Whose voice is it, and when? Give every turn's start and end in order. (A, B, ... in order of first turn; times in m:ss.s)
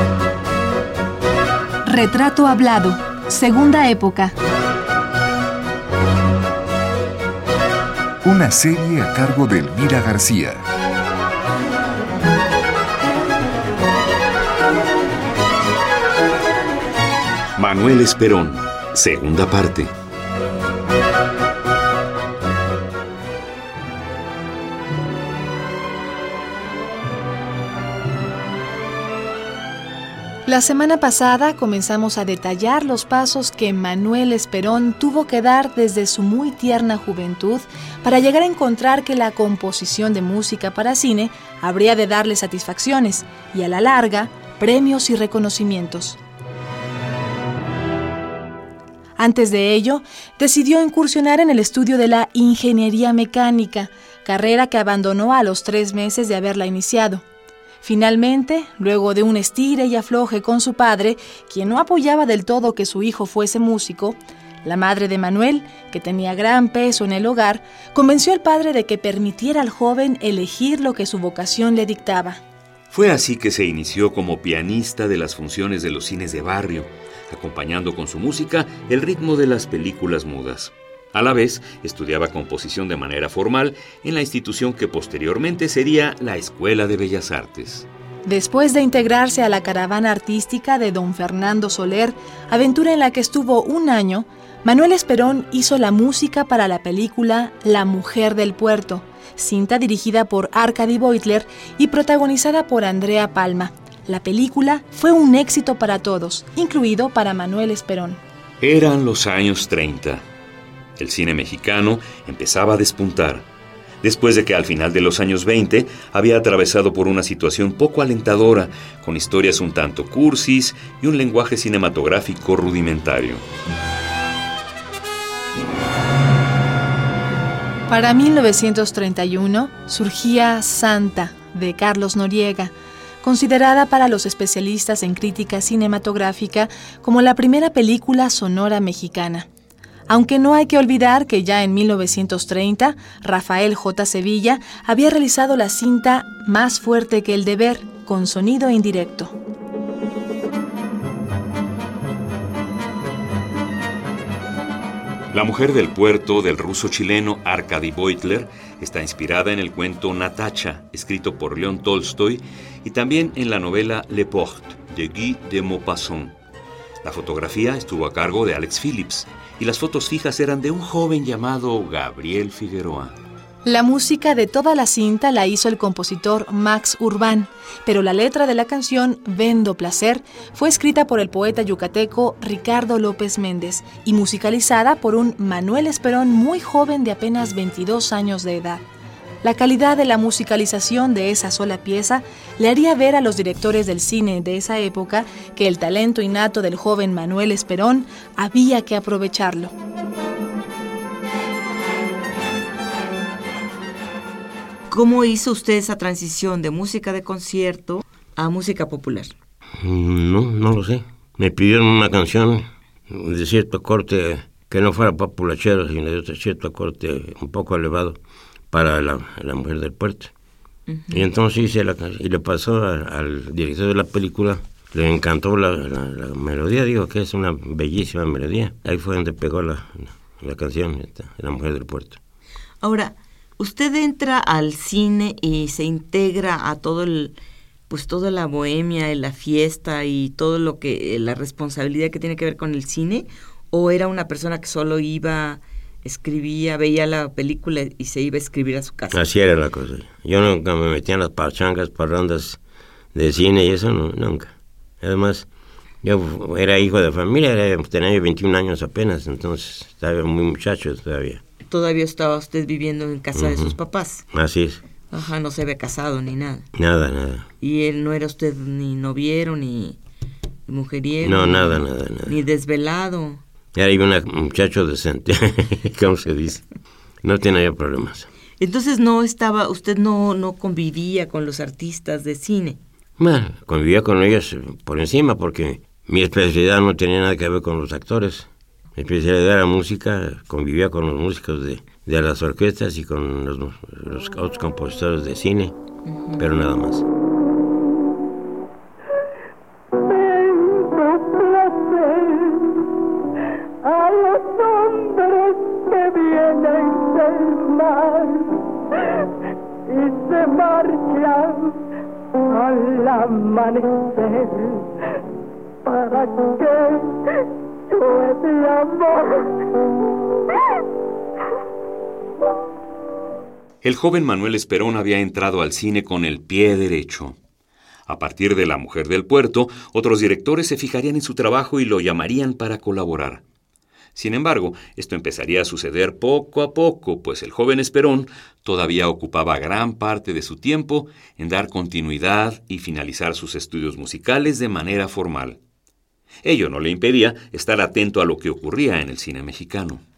0:01.8-0:04.4 A
0:08.2-0:10.6 B
0:17.6-0:19.9 C
0:30.5-0:46.2 A
0:49.2-0:57.2 A
0:57.8-1:12.4 A
1:12.9-1:27.9 C
1:28.3-1:48.2 A
1:48.6-1:50.2 C
1:51.0-1:53.5 C
1:54.0-2:03.4 C
2:07.9-2:12.7 A
2:13.2-2:19.5 A
2:20.1-2:29.4 A
2:35.3-2:46.4 C
2:47.0-2:53.2 C
2:53.6-3:08.8 A
3:09.4-3:19.7 A
3:24.9-3:29.3 D
3:29.8-3:38.2 E
3:38.7-3:40.3 E
3:40.9-3:41.3 D
3:41.1-3:52.2 E
3:52.8-3:57.4 D
3:57.9-4:09.2 D
4:09.1-4:12.6 E
4:13.1-4:15.5 E
4:16.0-4:21.4 E
4:21.6-4:24.2 D
4:23.4-4:23.8 E
4:24.3-4:24.8 E
4:25.1-4:26.7 D
4:26.8-4:27.5 E
4:27.6-4:30.0 D
4:30.7-4:33.4 D
4:31.2-4:32.4 E
4:33.8-4:36.6 E
4:37.2-4:38.3 E
4:38.6-4:42.8 D
4:43.2-4:55.8 E
4:56.1-4:56.4 D
4:56.4-4:57.1 E
5:00.0-5:02.9 F
5:03.8-5:08.6 F
5:09.9-5:11.8 F
5:12.5-5:14.9 F
5:15.8-5:17.2 F
5:17.9-5:19.5 F
5:23.8-5:27.4 C
5:28.1-5:33.4 C
5:34.2-5:45.6 C
5:46.4-5:50.0 C